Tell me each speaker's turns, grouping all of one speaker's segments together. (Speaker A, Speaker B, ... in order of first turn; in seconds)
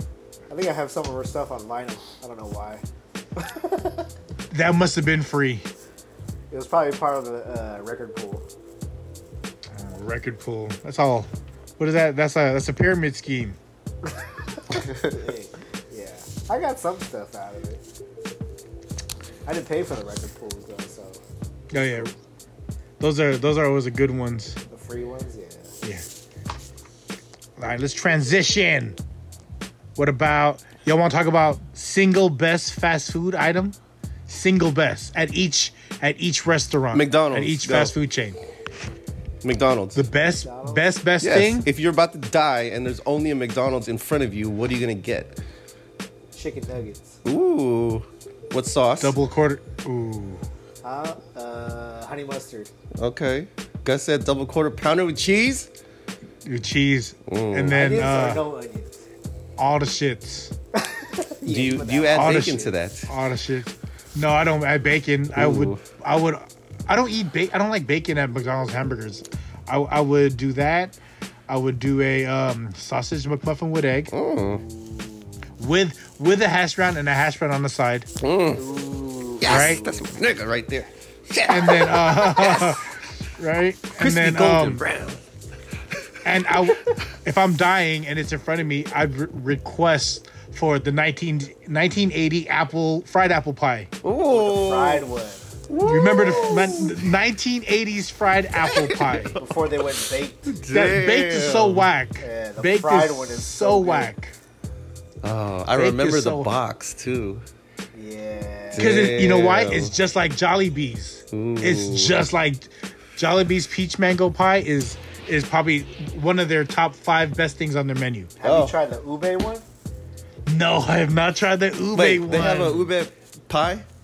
Speaker A: 0.5-2.8, 3.4-4.1, 6.5-8.5, 14.2-17.8, 19.4-21.2, 21.8-22.1, 24.7-25.8, 40.2-40.9, 46.3-47.2, 50.8-52.7, 57.7-59.0, 60.8-62.8, 74.4-75.5, 78.5-80.1, 94.2-95.5, 96.2-96.8, 99.4-100.5, 102.2-104.1, 107.9-109.1, 118.4-119.7
Speaker B: 4.5-5.7, 9.8-13.6, 21.7-22.1, 23.0-24.6, 27.6-29.0, 30.0-33.8, 34.3-38.4, 40.0-41.7, 49.0-50.4, 56.5-58.4, 59.6-60.5, 62.1-71.0, 71.5-74.1, 75.6-78.1, 79.5-79.9, 81.5-84.8, 86.2-93.9, 95.8-99.4, 100.7-104.3, 105.8-106.5, 108.8-118.3, 120.5-122.9
Speaker C: 36.9-37.9, 39.4-40.0, 41.2-45.4, 47.2-49.2, 53.0-55.7, 57.3-57.8, 61.5-63.1, 65.4-65.8, 74.1-74.6, 78.2-78.6, 79.4-82.8, 84.0-85.2, 94.0-95.1, 95.7-97.1, 98.6-99.4, 100.5-101.9, 105.2-107.4, 108.7-109.9, 111.3-112.2, 118.4-118.8, 122.0-123.8